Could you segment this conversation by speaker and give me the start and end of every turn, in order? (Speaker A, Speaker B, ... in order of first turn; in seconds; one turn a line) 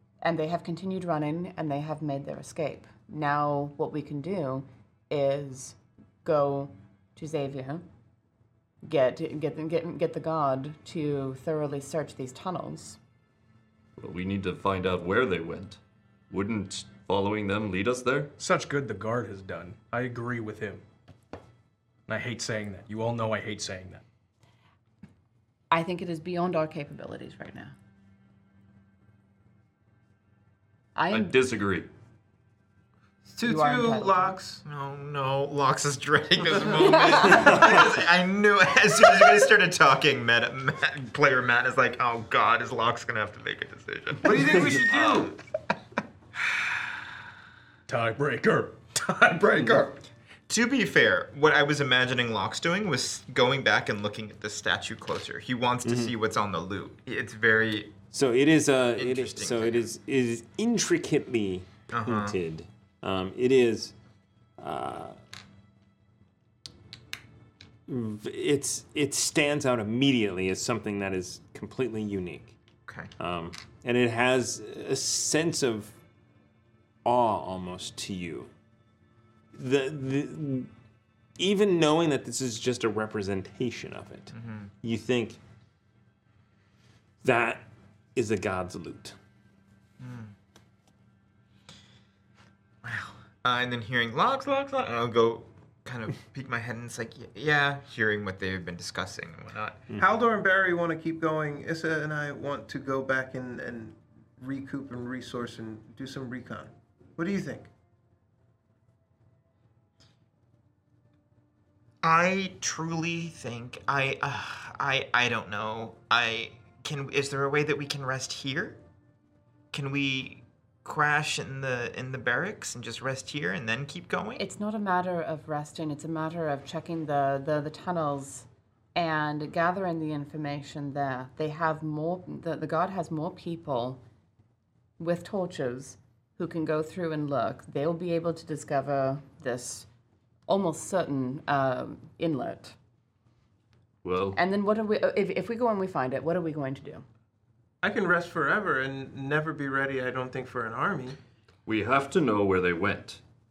Speaker A: 0.2-7.8
Speaker A: 8.8-13.0
Speaker B: 14.0-15.8
Speaker B: 16.3-18.3
Speaker C: 18.4-20.8
Speaker C: 22.1-24.0
Speaker A: 25.7-27.7
Speaker A: 30.9-31.3
Speaker B: 31.1-31.9
Speaker D: 33.3-34.6
Speaker A: 33.4-34.4
Speaker E: 34.6-45.3
Speaker A: 37.0-37.4
Speaker D: 44.2-45.4
Speaker C: 47.9-49.9
Speaker E: 50.5-57.9
Speaker F: 55.8-56.1
Speaker F: 58.1-63.9
Speaker E: 59.0-59.9
Speaker E: 61.9-62.4
Speaker F: 64.6-65.2
Speaker F: 67.9-72.5
Speaker E: 72.8-73.1
Speaker F: 73.2-75.9
Speaker F: 77.0-78.5
Speaker F: 79.5-80.7
Speaker F: 81.4-85.4
Speaker E: 84.3-84.7
Speaker F: 87.2-89.2
Speaker E: 90.0-90.3
Speaker E: 92.8-99.9
Speaker D: 100.0-107.7
Speaker E: 112.0-118.8
Speaker E: 119.7-124.4
Speaker A: 124.4-134.0
Speaker A: 135.0-139.9
Speaker A: 140.5-142.7
Speaker B: 144.0-144.4
Speaker A: 144.3-147.0
Speaker D: 147.8-151.2
Speaker B: 151.7-153.2